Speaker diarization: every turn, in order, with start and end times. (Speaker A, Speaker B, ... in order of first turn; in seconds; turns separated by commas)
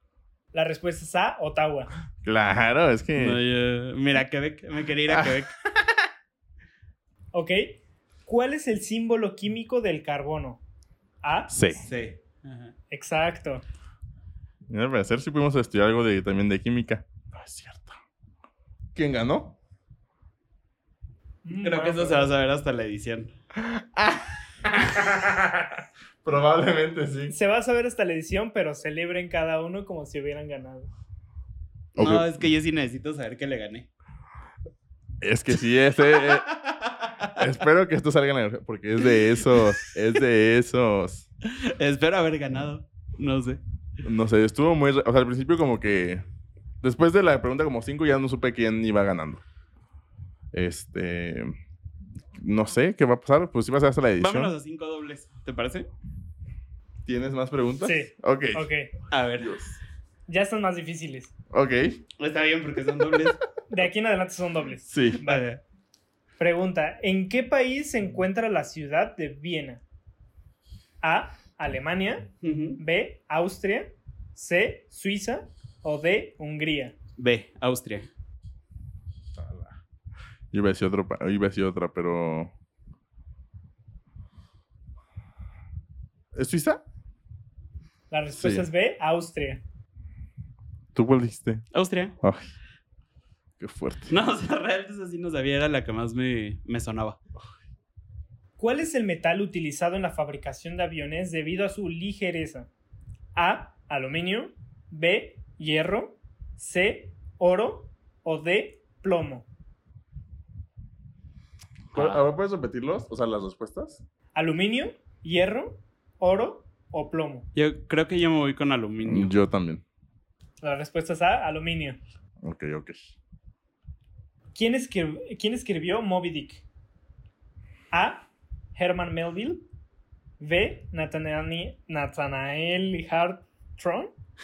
Speaker A: 0.5-1.9, Speaker B: 2.2-3.4, Speaker C: 3.2-5.6, Speaker A: 7.3-10.6, Speaker A: 11.2-11.7, Speaker B: 11.5-11.8, Speaker C: 11.8-12.7, Speaker A: 12.9-13.6, Speaker B: 14.7-17.9, Speaker B: 18.9-19.6, Speaker A: 21.4-22.3, Speaker C: 21.6-23.3, Speaker B: 23.6-27.3, Speaker A: 27.3-30.9, Speaker B: 32.0-32.4, Speaker C: 32.0-33.9, Speaker B: 35.2-36.5, Speaker C: 36.1-37.3, Speaker B: 37.3-41.3, Speaker C: 41.5-43.6, Speaker B: 44.0-46.2, Speaker B: 46.8-49.4, Speaker B: 50.5-51.5, Speaker B: 52.4-54.5, Speaker C: 54.2-55.9, Speaker B: 57.0-58.7, Speaker A: 57.8-58.9, Speaker C: 59.1-59.5, Speaker B: 59.4-59.8, Speaker A: 60.3-61.3, Speaker B: 61.5-62.0, Speaker C: 62.2-63.4, Speaker A: 63.7-65.5, Speaker B: 64.9-65.2, Speaker C: 65.2-65.6, Speaker A: 66.4-69.8, Speaker A: 71.0-77.0, Speaker C: 72.4-72.8, Speaker C: 77.2-78.1, Speaker B: 79.3-79.8, Speaker B: 80.5-82.5, Speaker B: 86.3-86.8, Speaker A: 88.1-89.6, Speaker B: 88.3-88.7, Speaker B: 90.9-91.7, Speaker C: 91.7-92.1, Speaker B: 93.6-94.1, Speaker C: 94.1-97.2, Speaker A: 98.6-102.7, Speaker A: 103.3-109.5, Speaker C: 111.9-112.2, Speaker B: 111.9-114.0, Speaker A: 114.3-117.5, Speaker C: 117.5-119.3, Speaker B: 119.0-119.8, Speaker A: 120.6-122.0, Speaker B: 122.4-123.1, Speaker A: 124.5-126.6, Speaker A: 127.9-129.7, Speaker A: 130.4-134.1